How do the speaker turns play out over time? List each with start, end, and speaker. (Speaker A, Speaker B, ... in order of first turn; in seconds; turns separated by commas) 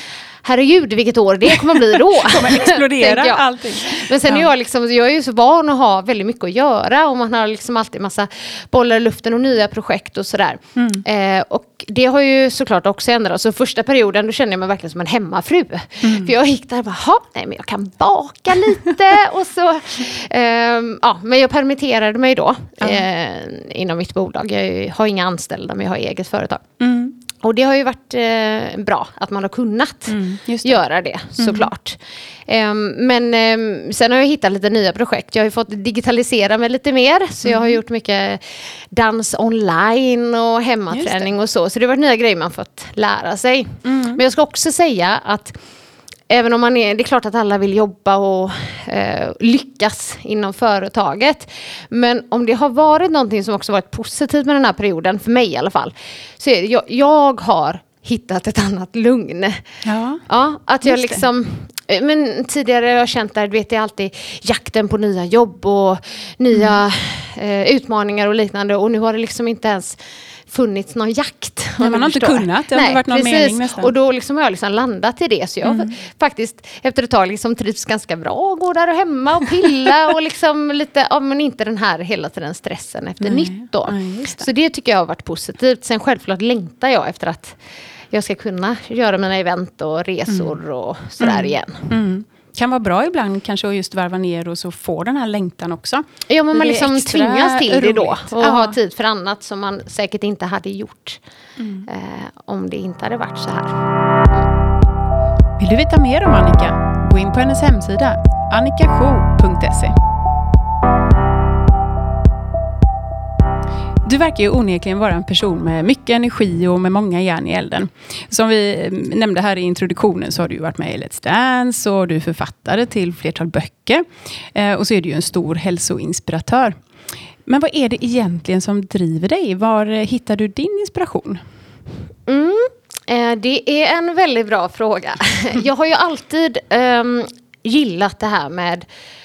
Speaker A: 0.4-26.7, Speaker B: 2.2-4.5, Speaker B: 10.8-11.0, Speaker B: 16.0-16.3, Speaker B: 26.8-27.1, Speaker A: 27.4-45.6, Speaker B: 30.1-30.8, Speaker B: 31.4-31.7, Speaker B: 37.4-37.8, Speaker B: 40.9-41.3, Speaker B: 43.9-44.2, Speaker A: 46.3-59.7, Speaker B: 59.8-60.2, Speaker A: 60.2-87.6, Speaker B: 60.8-61.2, Speaker B: 71.8-73.9, Speaker B: 75.6-75.9, Speaker B: 83.2-84.5, Speaker A: 88.1-91.9, Speaker B: 90.3-90.6, Speaker B: 91.2-98.8, Speaker A: 96.3-101.2, Speaker B: 101.6-101.9, Speaker A: 101.9-104.5, Speaker B: 105.6-109.9, Speaker B: 114.0-126.8, Speaker B: 127.5-131.4, Speaker A: 132.3-138.8